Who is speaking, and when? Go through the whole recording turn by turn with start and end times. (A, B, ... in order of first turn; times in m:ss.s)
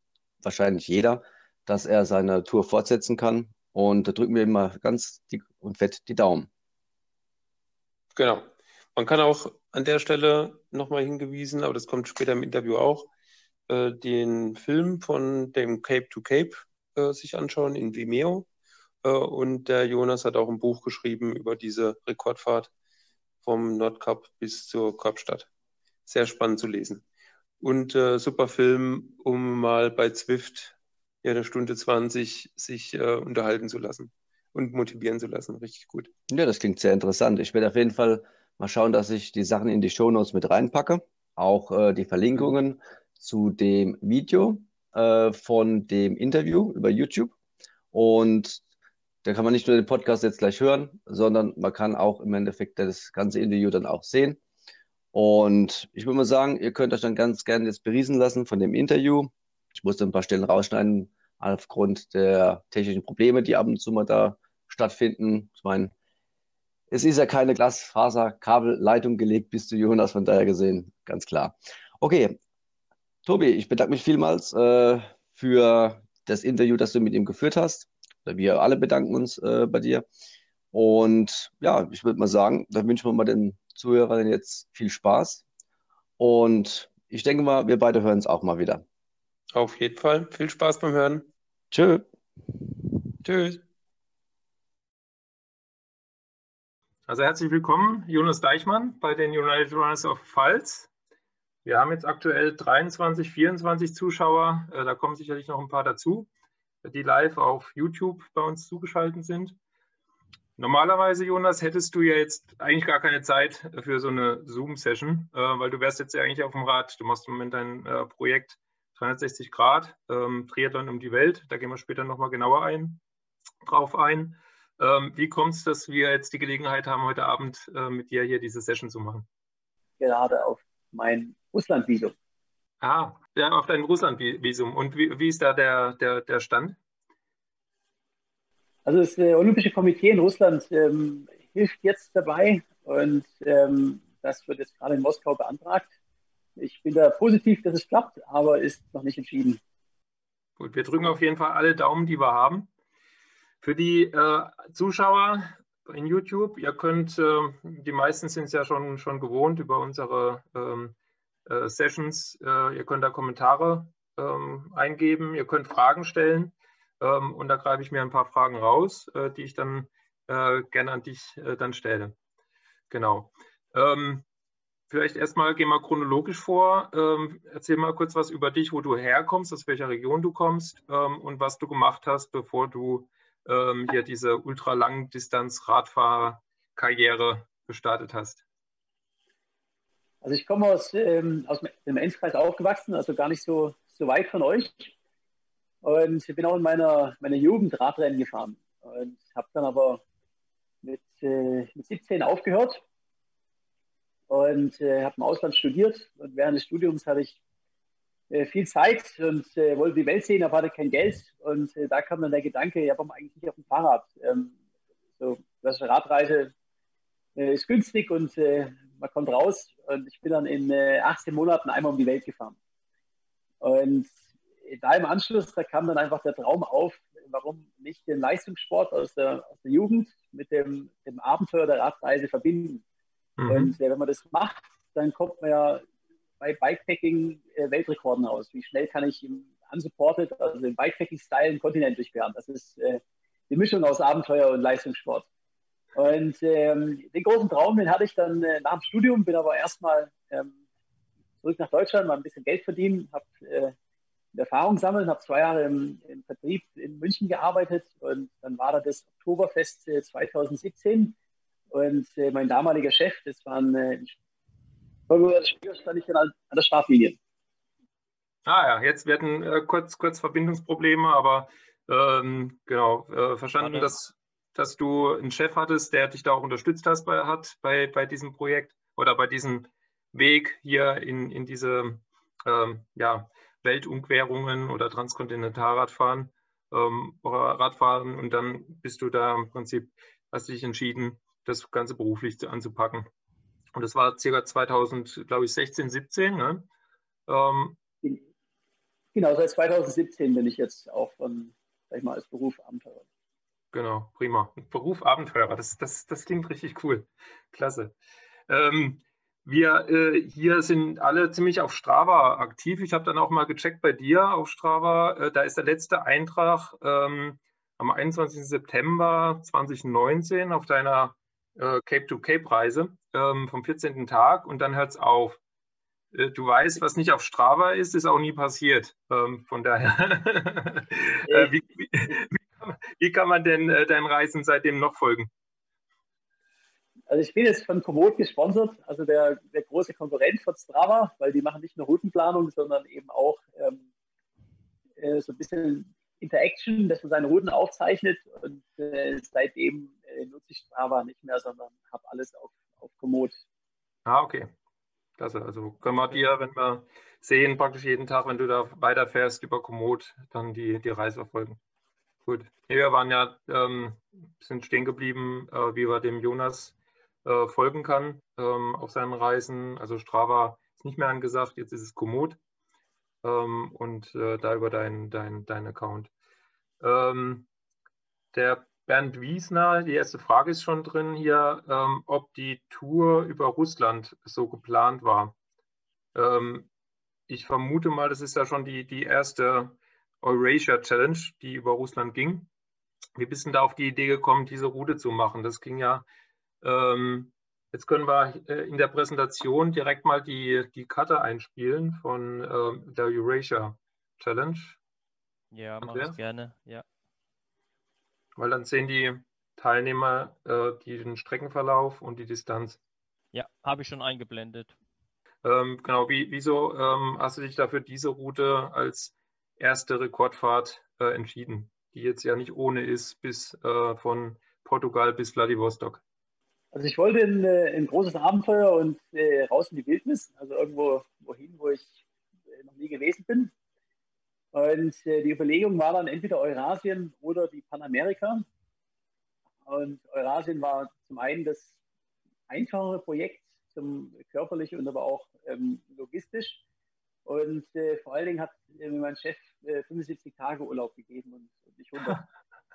0:00.4-0:06.5 A
0:08.1-0:13.1 B
0:13.7-0:18.5 B
0:19.0-0:22.7 B
0:23.4-0:25.5 B
0:26.1-0:27.0 B
0:27.6-0:36.1 B
0:36.3-0:47.3 A
0:47.9-0:48.6 A
0:49.2-0:54.4 A
0:55.1-1:05.9 A
1:06.9-1:12.4 A
1:13.2-1:20.0 A
1:20.7-1:25.4 A
1:26.2-1:28.8 A
1:29.5-1:31.3 B
1:31.7-1:32.0 A
1:33.2-1:33.6 B
1:37.1-1:40.9 C
1:41.6-1:46.3 C
1:46.8-1:49.5 C
1:50.6-2:03.0 C
2:03.6-2:09.2 C
2:10.0-2:12.1 D
2:12.8-2:16.8 C
2:18.8-2:25.9 D
2:26.6-2:29.6 D
2:30.6-2:32.7 C
2:33.6-2:40.9 C
2:41.4-2:52.1 C
2:52.9-2:54.2 C
2:54.9-3:08.4 C
3:10.2-3:14.9 D
3:15.8-3:20.0 D
3:20.8-3:22.8 D
3:24.3-3:27.4 D
3:28.3-3:34.5 D
3:35.2-3:36.5 D
3:37.4-3:42.6 D
3:43.6-3:44.1 D
3:44.6-3:52.8 D
3:53.4-3:53.7 C
3:53.5-3:55.8 D
3:56.4-4:05.3 D
4:06.0-4:10.6 D
4:11.4-4:13.7 D
4:14.3-4:21.2 D
4:21.7-4:24.1 D
4:25.1-4:27.2 D
4:28.4-4:53.1 C
4:33.6-4:33.9 E
4:53.7-4:56.7 C
4:57.3-4:57.8 C
4:59.1-5:03.0 D
5:03.7-5:07.9 C
5:08.5-5:25.4 C
5:26.1-5:35.3 C
5:31.3-5:32.2 D
5:37.1-5:43.9 D
5:45.0-5:53.4 D
5:54.0-5:54.5 C
5:55.2-6:01.6 C
6:02.2-6:06.7 C
6:07.2-6:12.4 C
6:13.2-6:16.1 C
6:16.8-6:17.5 C
6:18.3-6:25.4 C
6:26.1-6:26.7 C
6:27.3-6:32.5 C
6:33.2-6:36.0 C
6:36.6-6:44.8 C
6:45.5-6:46.8 E
6:45.8-6:46.1 C
6:48.4-6:52.8 C
6:53.3-6:54.8 E
6:55.4-7:06.0 C
7:06.7-7:12.0 D
7:12.5-7:13.5 D
7:14.5-7:18.4 D
7:19.6-7:21.7 D
7:22.5-7:26.6 D
7:27.2-7:32.2 D